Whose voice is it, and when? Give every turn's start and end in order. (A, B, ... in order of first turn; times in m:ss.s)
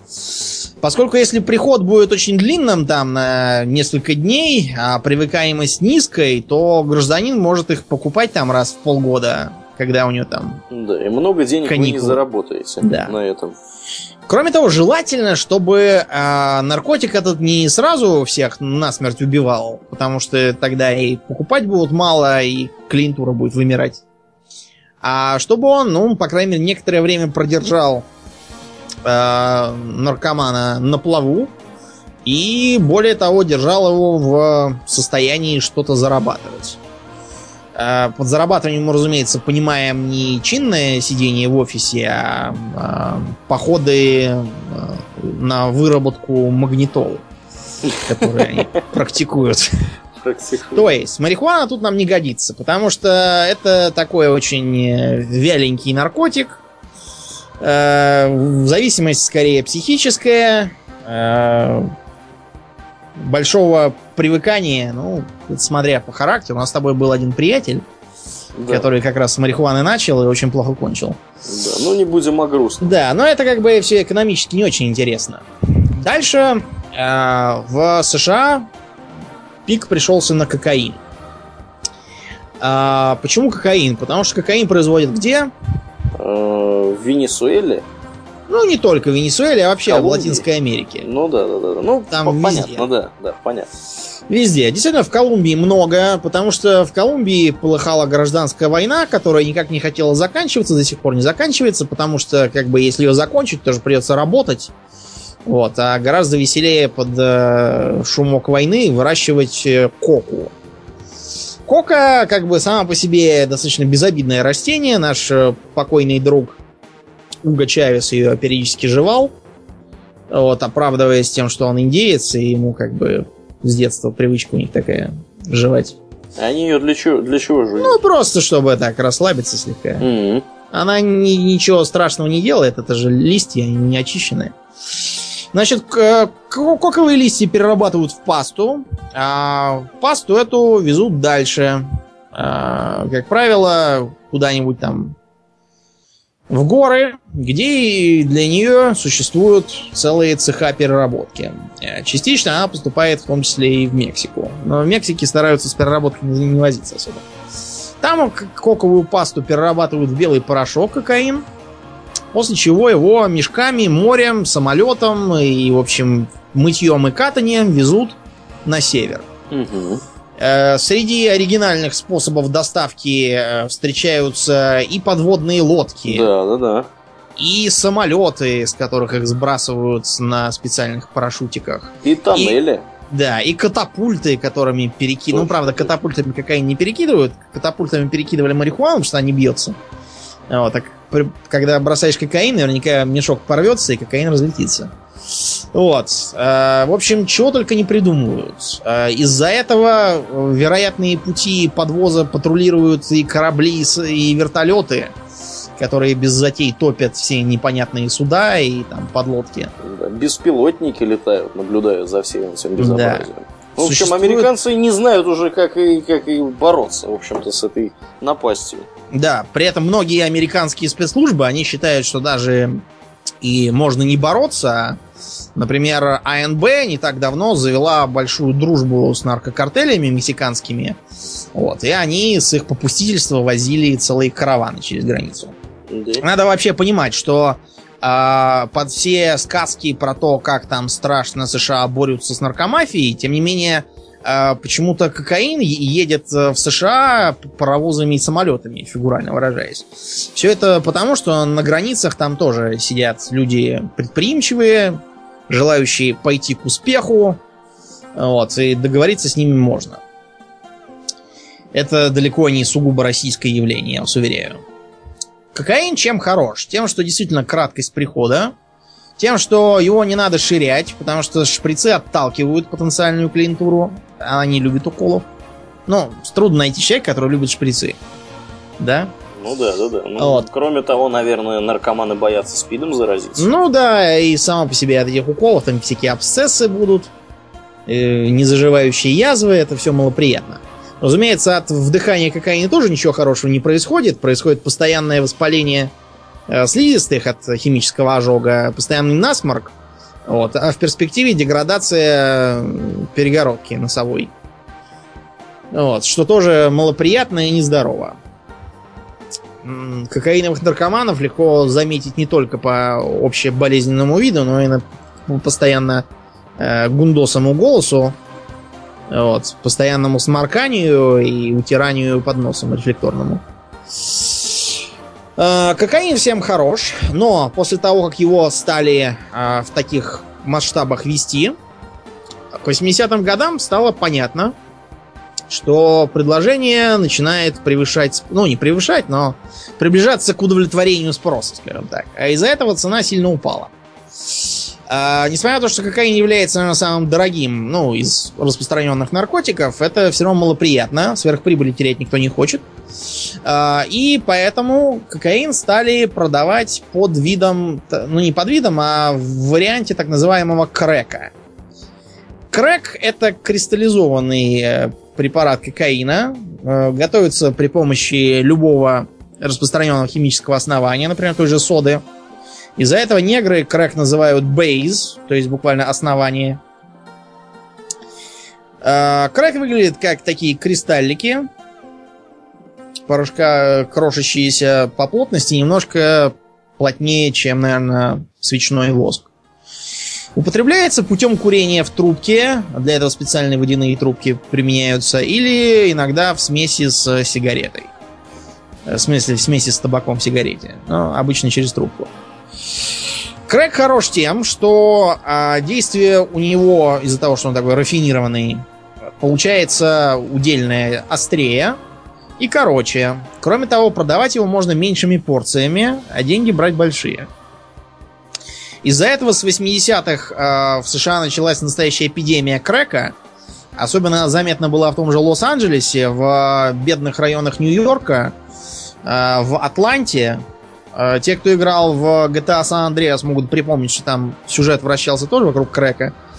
0:00.3-0:10.6 A
0:10.7-0:13.6 B
0:11.7-0:12.2 A
0:12.8-0:13.1 A
0:14.3-0:24.0 A
0:25.0-0:28.1 A
0:29.0-0:31.5 A
0:32.2-0:36.8 A
0:37.8-0:47.2 A
0:47.8-0:48.8 B
0:48.1-0:49.7 A
0:50.2-0:50.9 B
0:50.7-0:56.6 A
0:57.6-1:01.9 A
1:03.2-1:07.8 A
1:08.6-1:08.9 B
1:08.7-1:11.2 A
1:11.4-1:13.0 B
1:12.8-1:18.7 A
1:19.7-1:21.0 A
1:22.6-1:25.5 A
1:26.2-1:27.9 B
1:28.5-1:31.0 A
1:29.9-1:30.5 B
1:31.0-1:33.7 B
1:32.1-1:32.9 A
1:34.3-1:44.7 A
1:45.5-1:50.5 A
1:51.7-1:56.6 A
1:57.4-1:59.3 A
2:00.3-2:06.0 A
2:06.4-2:08.0 B
2:07.8-2:10.1 A
2:10.0-2:10.4 B
2:10.7-2:14.6 A
2:15.5-2:25.2 A
2:26.5-2:37.2 A
2:38.0-2:41.5 A
2:42.3-2:49.3 A
2:49.5-2:50.0 B
2:50.4-2:56.3 A
2:56.0-2:56.9 B
2:57.4-3:02.6 A
3:02.0-3:02.8 B
3:03.1-3:09.8 A
3:05.3-3:05.9 B
3:10.5-3:14.9 A
3:15.7-3:25.2 A
3:25.8-3:29.7 A
3:29.8-3:38.9 B
3:32.8-3:33.3 A
3:33.8-3:34.5 A
3:39.1-3:42.8 A
3:43.4-3:45.0 A
3:45.6-3:51.0 A
3:51.6-3:55.6 A
3:55.9-3:56.2 B
3:56.2-4:17.4 A
4:18.2-4:20.0 A
4:21.7-4:24.6 A
4:25.5-4:28.5 A
4:29.2-4:35.3 A
4:35.9-4:38.0 A
4:38.8-4:39.1 A
4:39.4-4:43.5 B
4:40.2-4:40.5 A
4:43.4-4:47.1 A
4:47.9-4:55.9 A
4:56.5-4:59.7 A
5:00.3-5:04.3 A
5:05.7-5:08.2 A
5:09.6-5:16.1 A
5:16.6-5:18.2 A
5:19.1-5:23.4 A
5:24.0-5:24.8 A
5:25.4-5:31.6 A
5:32.5-5:34.6 A
5:35.5-5:43.7 A
5:44.4-5:52.7 A
5:53.4-6:01.3 A
6:02.5-6:12.0 A
6:12.8-6:16.6 A
6:18.8-6:21.5 A
6:23.1-6:29.3 A
6:30.4-6:37.9 A
6:38.9-6:42.1 A
6:43.5-6:48.6 A
6:49.2-6:51.8 A
6:52.4-6:57.3 A
6:58.8-7:03.2 A
7:03.8-7:08.4 A
7:09.0-7:10.4 A
7:10.9-7:16.2 A